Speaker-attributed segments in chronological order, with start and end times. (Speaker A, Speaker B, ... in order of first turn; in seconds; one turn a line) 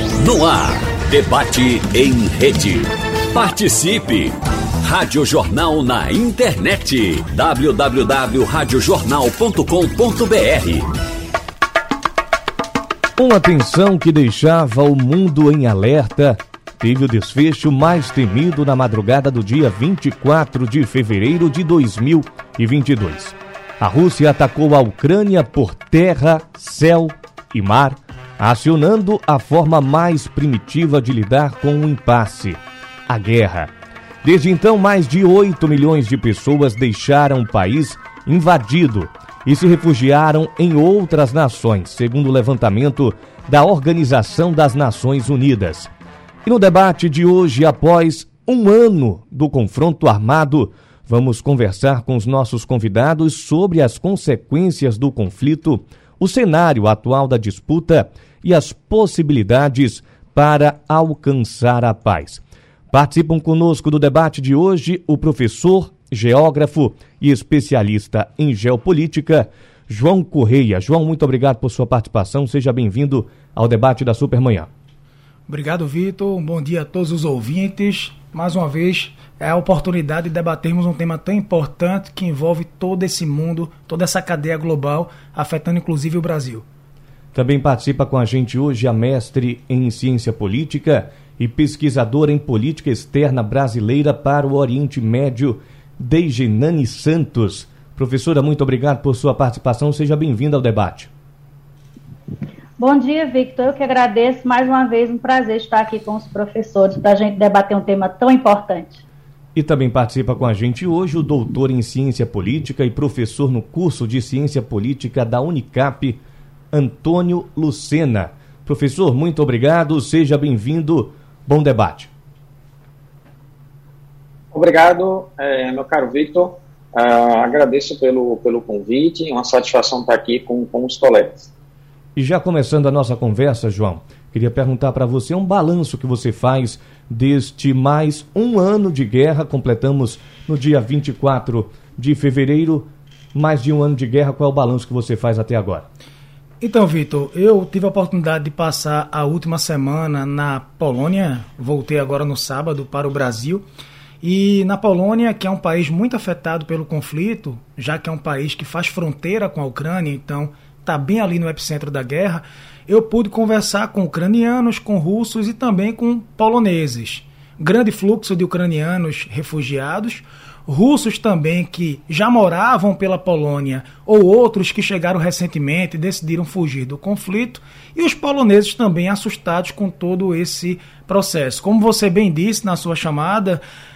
Speaker A: 0.2-10.9
Speaker B: 13.2-33.7
Speaker B: 34.2-45.9
Speaker B: 46.5-74.7
Speaker C: 75.5-86.6
Speaker B: 87.3-101.1
Speaker D: 102.8-109.0
Speaker B: 109.5-116.2
Speaker B: 116.7-122.1
Speaker E: 124.5-131.5
Speaker B: 132.2-145.9
Speaker C: 146.6-153.6
Speaker C: 154.2-183.6